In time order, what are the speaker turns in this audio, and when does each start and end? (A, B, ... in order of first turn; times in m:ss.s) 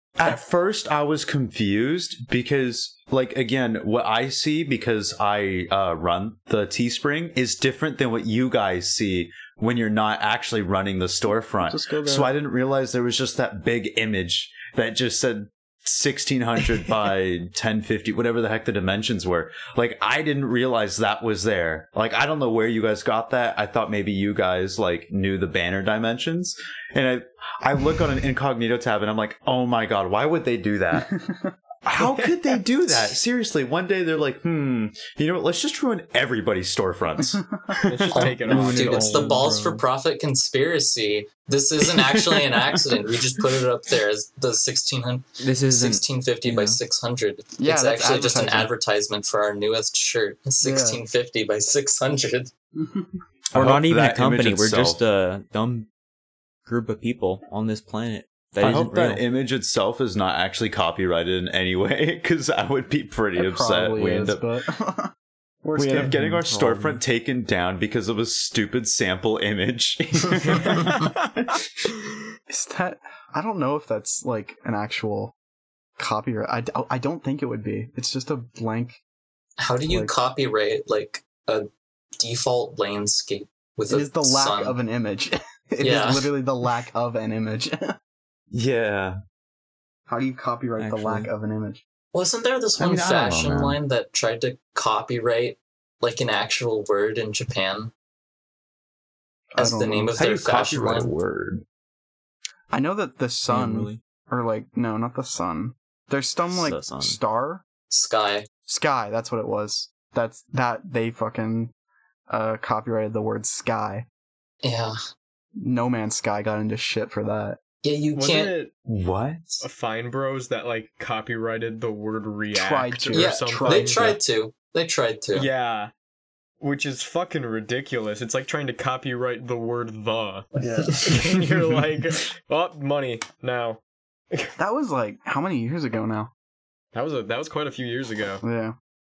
0:00.2-0:31.1 A
0:11.6-0:12.3 B
0:30.9-0:31.5 B
0:31.8-0:38.4 A
0:32.0-0:32.4 C
0:37.2-0:37.8 B
0:37.8-0:39.4 C
0:38.1-0:52.5 D
0:38.4-0:39.8 E
0:45.4-0:46.8 E
0:47.6-0:48.7 B
0:50.6-0:51.0 B
0:52.7-0:53.1 B
0:53.5-0:55.0 A
0:53.5-0:55.9 E
0:56.6-0:59.2 E
0:58.6-1:04.4 A
1:03.4-1:06.2 B
1:05.8-1:11.6 A
1:06.1-1:07.0 E
1:10.4-1:11.2 C
1:12.5-1:15.3 B
1:16.0-1:19.0 B
1:19.6-1:21.7 D
1:19.9-1:20.1 B
1:22.2-1:24.8 D
1:23.9-1:28.0 B
1:25.8-1:26.3 D
1:28.5-1:29.2 A
1:30.1-1:31.8 B
1:30.8-1:31.3 E
1:32.1-1:37.9 D
1:32.8-1:33.8 A
1:39.5-1:40.1 B
1:39.6-1:41.1 D
1:40.2-1:41.6 A
1:42.7-1:47.6 B
1:43.5-1:44.0 E
1:46.4-1:47.2 E
1:47.9-1:48.5 D
1:48.7-1:51.7 B
1:52.3-1:54.0 B
1:54.6-1:55.0 D
1:55.6-1:57.6 B
1:57.8-1:58.5 D
1:58.1-1:58.7 C
1:58.8-1:59.6 A
1:59.6-2:04.1 C
2:02.5-2:04.2 B
2:03.1-2:05.5 D
2:05.3-2:05.9 C
2:06.6-2:14.5 C
2:10.6-2:11.2 B
2:14.6-2:16.3 B
2:16.9-2:18.4 C
2:18.4-2:18.8 B